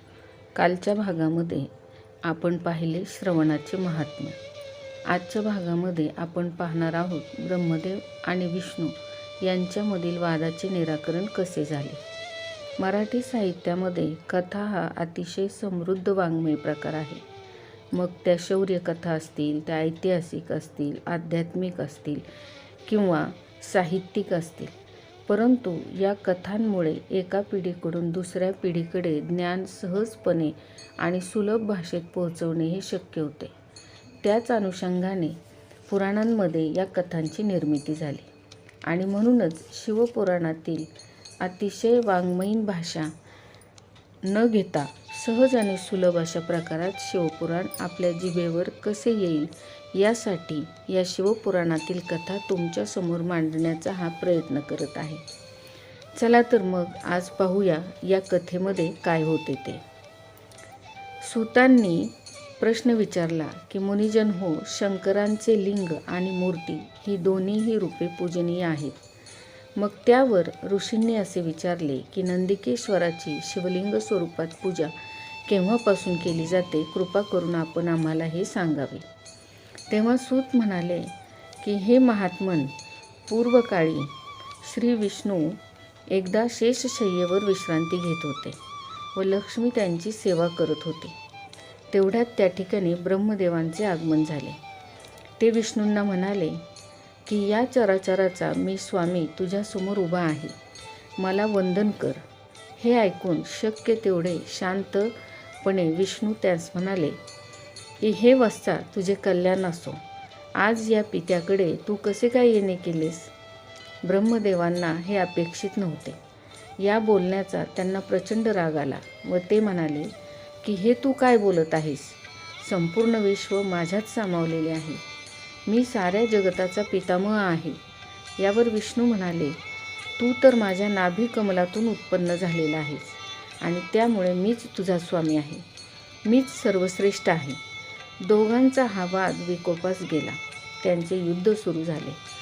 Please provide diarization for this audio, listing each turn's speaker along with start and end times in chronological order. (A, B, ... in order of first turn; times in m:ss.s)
0:00.5-0:01.7 A
0:02.2-0:04.4 A
0:05.1-0:12.0 A
0:12.8-0:17.2 A
0:17.9-0:22.2 A
0:22.8-0:24.7 A
0:25.3-0:33.5 A
0:34.2-0:38.3 A
0:38.8-0:40.9 A
0:41.4-0:43.1 A
0:44.2-0:55.2 A
0:56.2-0:59.8 A
1:01.2-1:09.0 A
1:09.8-1:14.9 A
1:15.4-1:19.0 A
1:19.9-1:22.7 A
1:23.3-1:25.6 A
1:26.1-1:28.6 A
1:29.1-1:31.2 A
1:31.9-1:34.6 A
1:35.4-1:36.6 A
1:37.2-1:40.5 A
1:41.2-1:42.2 A
1:42.8-1:47.2 A
1:48.0-1:50.0 A
1:50.6-1:53.3 A
1:54.0-1:56.2 A
1:56.8-2:00.1 A
2:00.6-2:05.0 A
2:05.6-2:07.8 A
2:08.4-2:09.6 A
2:10.2-2:15.6 A
2:16.2-2:17.6 A
2:18.2-2:22.2 A